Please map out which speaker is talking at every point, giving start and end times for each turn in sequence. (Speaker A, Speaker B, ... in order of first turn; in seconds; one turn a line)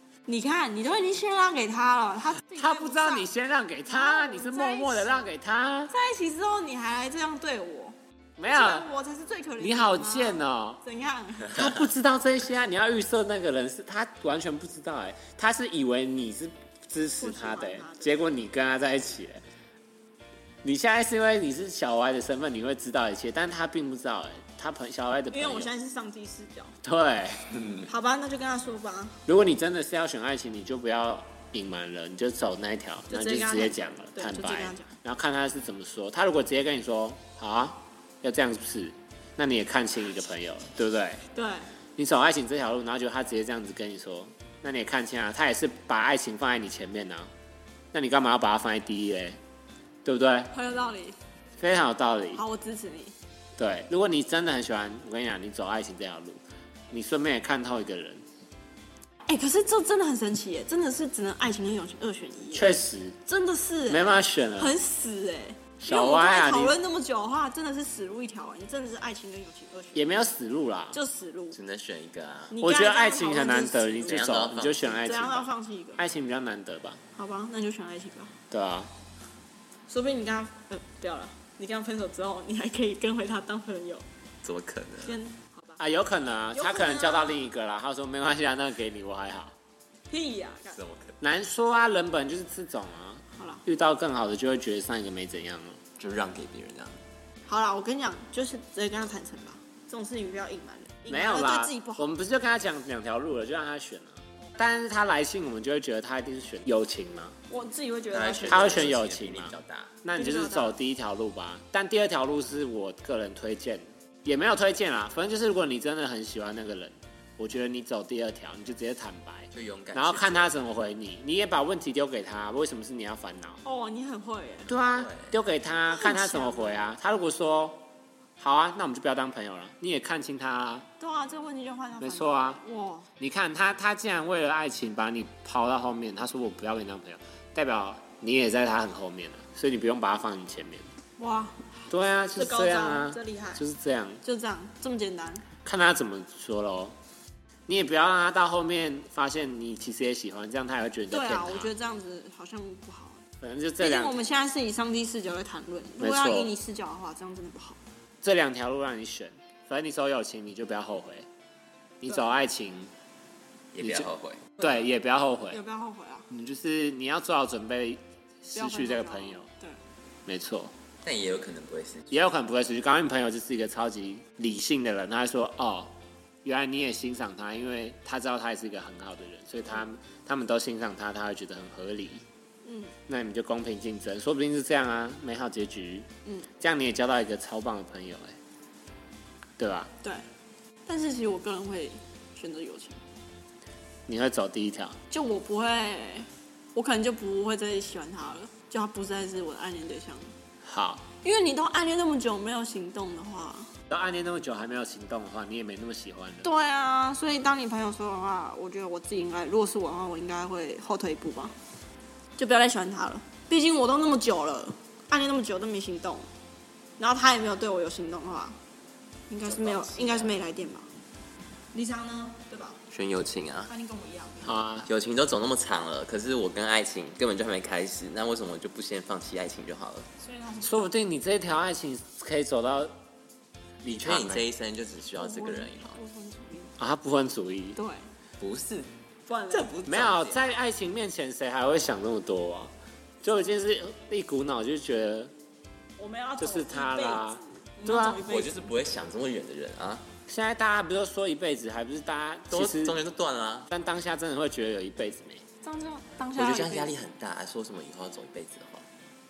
Speaker A: 0.3-3.3
Speaker B: 2.6-5.9
Speaker A: 3.9-5.3
Speaker A: 5.9-8.0
Speaker B: 8.4-8.9
Speaker A: 8.5-11.7
Speaker B: 9.6-10.8
Speaker B: 11.5-19.4
Speaker A: 17.2-18.4
Speaker B: 20.6-25.7
Speaker A: 25.3-26.8
Speaker B: 26.8-27.4
Speaker A: 27.9-29.2
Speaker B: 29.3-41.2
Speaker A: 33.1-34.9
Speaker A: 41.3-41.7
Speaker B: 42.0-47.3
Speaker B: 47.9-49.4
Speaker B: 50.0-50.5
Speaker A: 50.5-51.1
Speaker B: 51.6-52.4
Speaker A: 52.4-53.1
Speaker B: 53.6-56.4
Speaker B: 56.9-58.2
Speaker A: 59.2-70.2
Speaker B: 62.5-63.2
Speaker B: 63.9-64.8
Speaker B: 65.8-66.8
Speaker B: 69.9-71.0
Speaker A: 70.9-71.6
Speaker C: 71.5-72.5
Speaker A: 72.5-74.3
Speaker B: 72.6-77.0
Speaker C: 74.0-75.2
Speaker A: 75.0-76.0
Speaker A: 77.1-78.3
Speaker B: 78.5-78.9
Speaker A: 79.9-84.0
Speaker C: 84.4-85.2
Speaker A: 85.0-85.8
Speaker B: 85.8-89.5
Speaker A: 86.5-87.5
Speaker A: 90.1-90.8
Speaker C: 90.7-91.1
Speaker B: 91.2-95.8
Speaker A: 93.4-93.6
Speaker C: 96.0-97.0
Speaker A: 97.5-102.1
Speaker B: 101.1-107.3
Speaker A: 107.5-108.9
Speaker C: 108.1-110.0
Speaker B: 108.5-123.6
Speaker A: 110.1-110.8
Speaker C: 119.5-120.5
Speaker A: 123.6-124.7
Speaker B: 124.7-127.8
Speaker C: 124.9-125.3
Speaker A: 125.9-126.9
Speaker B: 128.4-130.8
Speaker A: 131.0-133.1
Speaker B: 132.0-132.6
Speaker B: 133.2-140.8
Speaker A: 141.2-143.6
Speaker B: 141.9-144.2
Speaker A: 144.2-145.4
Speaker B: 145.6-147.0
Speaker B: 147.7-151.7
Speaker A: 151.1-153.2
Speaker B: 153.4-154.2
Speaker A: 153.8-157.8
Speaker B: 156.0-156.5
Speaker B: 158.2-161.3
Speaker B: 162.0-162.9
Speaker C: 163.7-164.5
Speaker B: 163.8-165.6
Speaker A: 165.5-166.3
Speaker B: 166.3-169.5
Speaker A: 168.5-169.8
Speaker B: 170.2-170.7
Speaker C: 171.0-172.3
Speaker B: 172.1-175.9
Speaker B: 176.4-182.2
Speaker A: 182.6-182.9
Speaker B: 183.1-186.1
Speaker B: 186.6-188.3
Speaker B: 189.6-189.9
Speaker A: 190.8-193.0
Speaker B: 194.1-195.0
Speaker A: 195.1-200.3
Speaker B: 200.6-201.0
Speaker A: 201.2-203.7
Speaker B: 203.9-206.5
Speaker A: 206.4-211.6
Speaker A: 212.4-216.3
Speaker A: 217.0-218.6
Speaker A: 219.3-220.9
Speaker C: 219.4-220.4
Speaker A: 221.7-222.8
Speaker C: 222.9-223.7
Speaker A: 223.7-224.6
Speaker B: 224.4-224.9
Speaker C: 224.8-230.1
Speaker A: 230.2-230.9
Speaker B: 230.6-232.9
Speaker B: 233.8-234.4
Speaker C: 233.8-236.0
Speaker A: 235.2-236.8
Speaker B: 236.8-237.8
Speaker A: 237.8-238.1
Speaker C: 238.4-238.9
Speaker A: 239.3-239.8
Speaker C: 239.5-240.6
Speaker B: 239.8-242.7
Speaker B: 243.2-245.3
Speaker A: 246.0-248.7
Speaker B: 246.4-248.2
Speaker C: 248.2-250.1
Speaker B: 250.3-253.0
Speaker C: 252.5-253.7
Speaker B: 253.7-255.4
Speaker A: 255.6-257.0
Speaker C: 256.4-258.8